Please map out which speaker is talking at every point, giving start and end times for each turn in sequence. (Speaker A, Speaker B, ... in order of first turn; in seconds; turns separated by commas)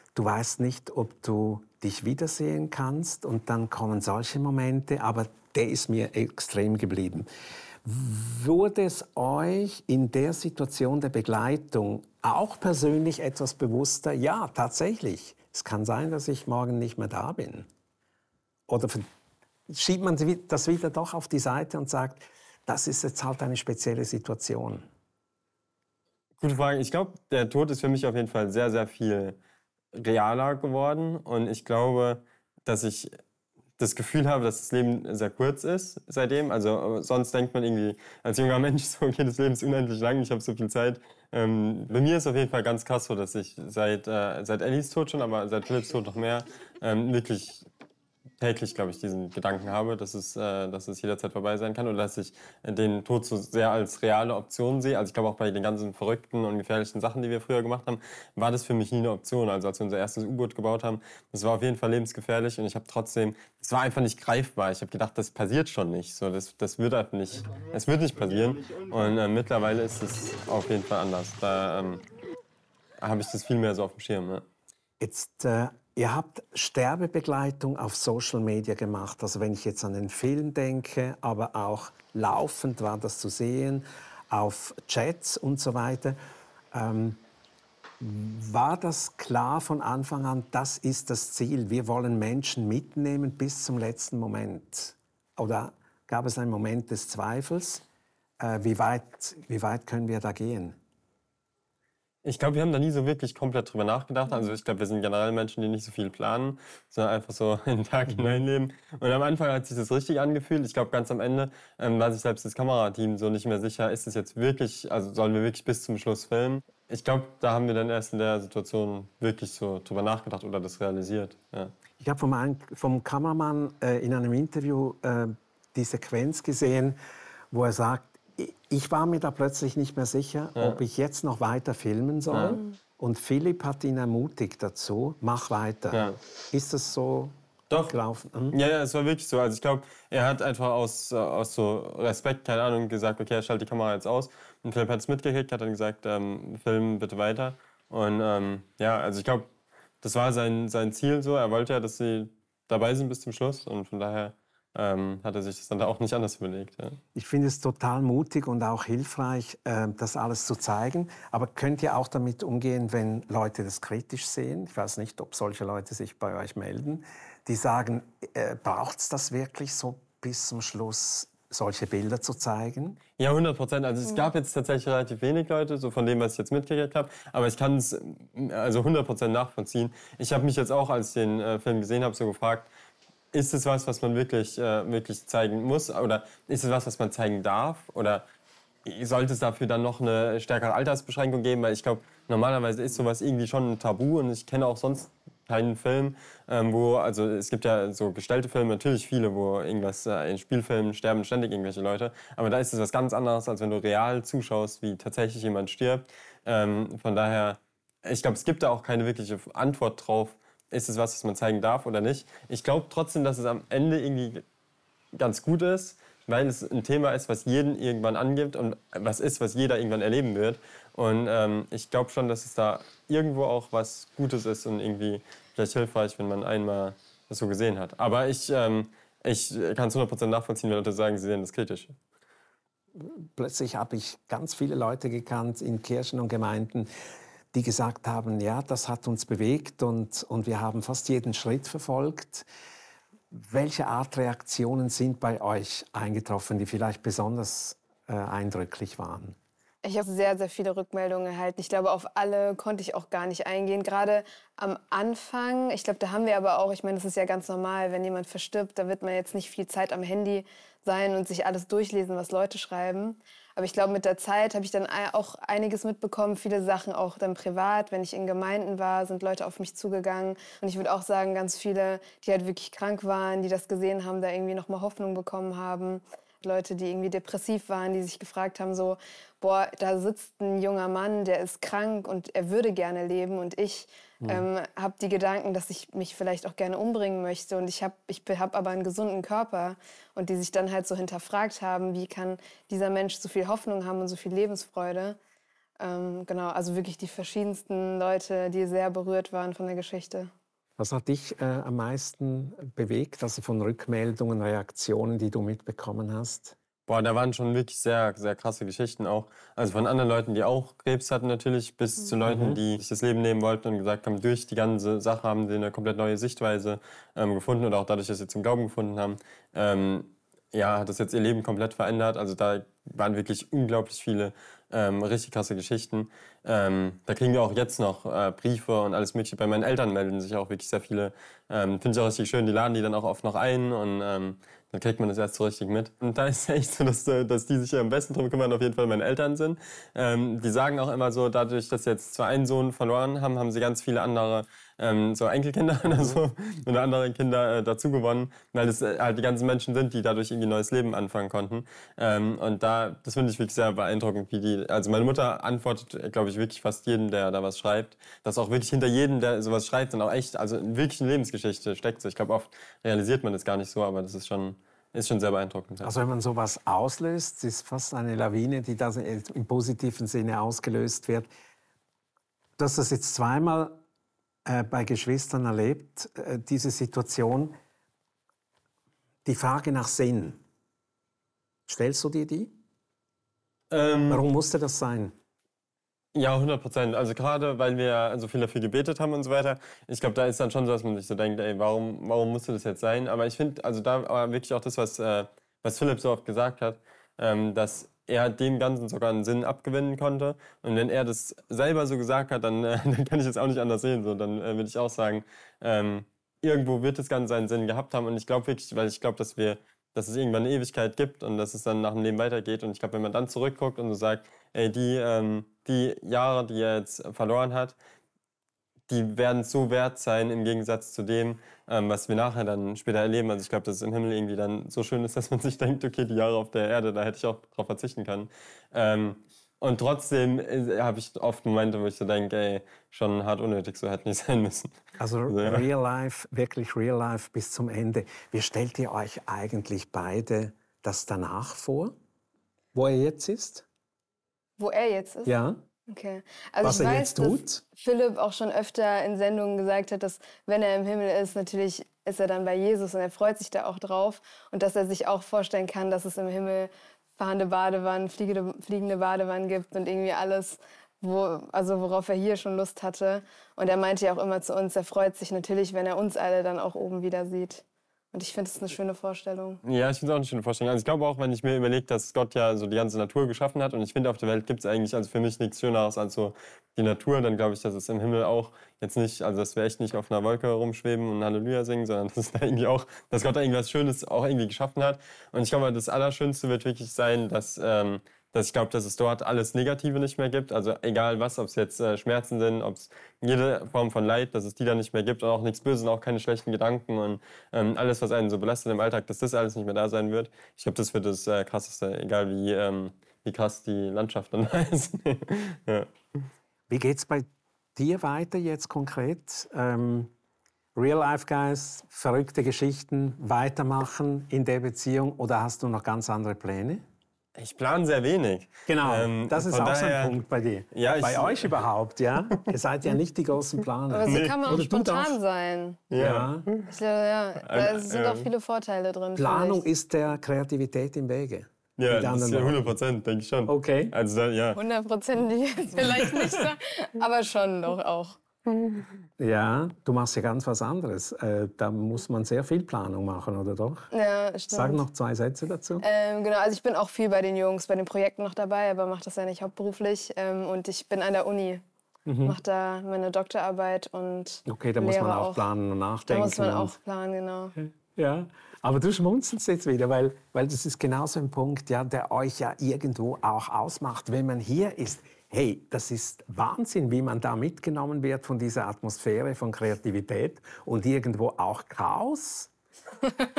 Speaker A: 0.1-7.3, Speaker A: 7.8-17.7, Speaker A: 18.7-19.1, Speaker A: 19.7-24.9, Speaker B: 26.4-29.4, Speaker B: 29.9-33.1, Speaker B: 33.8-47.6, Speaker B: 48.4-72.0, Speaker B: 73.0-74.5, Speaker A: 75.0-86.2, Speaker A: 86.7-87.2, Speaker A: 88.0-97.8, Speaker A: 98.4-100.8, Speaker B: 102.2-121.7, Speaker A: 108.1-108.4, Speaker A: 122.0-127.0, Speaker A: 127.5-138.6, Speaker B: 132.3-132.6, Speaker B: 135.9-136.2, Speaker B: 138.5-149.5, Speaker B: 150.0-157.0, Speaker A: 157.2-173.0, Speaker B: 173.2-182.7, Speaker B: 183.3-188.2, Speaker B: 188.8-214.4, Speaker B: 215.2-231.9, Speaker A: 233.0-236.9, Speaker A: 237.5-242.5, Speaker A: 243.3-249.4, Speaker C: 249.8-295.2, Speaker A: 284.2-284.5, Speaker C: 295.8-300.3, Speaker A: 300.8-306.6, Speaker B: 306.9-365.9, Speaker A: 312.2-312.6, Speaker A: 365.8-371.3, Speaker A: 372.6-373.8, Speaker A: 374.5-377.6, Speaker A: 379.2-380.4, Speaker A: 381.7-382.5, Speaker B: 383.7-384.2, Speaker A: 384.1-385.1, Speaker B: 386.1-417.8, Speaker B: 418.9-435.6, Speaker A: 435.0-441.9, Speaker A: 442.7-443.7, Speaker C: 444.6-445.3, Speaker A: 445.2-445.6, Speaker C: 445.9-469.6, Speaker A: 446.6-447.6, Speaker B: 469.6-505.9, Speaker A: 506.7-510.1, Speaker A: 510.8-516.9, Speaker B: 517.4-520.2, Speaker A: 518.7-525.2, Speaker B: 520.7-521.5, Speaker C: 523.9-525.8, Speaker B: 524.1-524.6, Speaker B: 525.9-526.7, Speaker A: 526.0-526.5, Speaker C: 526.7-529.7, Speaker B: 527.4-528.3, Speaker A: 529.2-532.8, Speaker B: 531.8-534.6, Speaker A: 533.5-533.9, Speaker C: 534.6-538.2, Speaker A: 539.2-543.9, Speaker C: 543.9-544.8, Speaker A: 544.5-545.8, Speaker C: 545.8-551.6, Speaker A: 552.1-552.4, Speaker C: 552.2-555.5, Speaker A: 554.5-556.8, Speaker C: 556.1-557.5, Speaker A: 557.6-572.5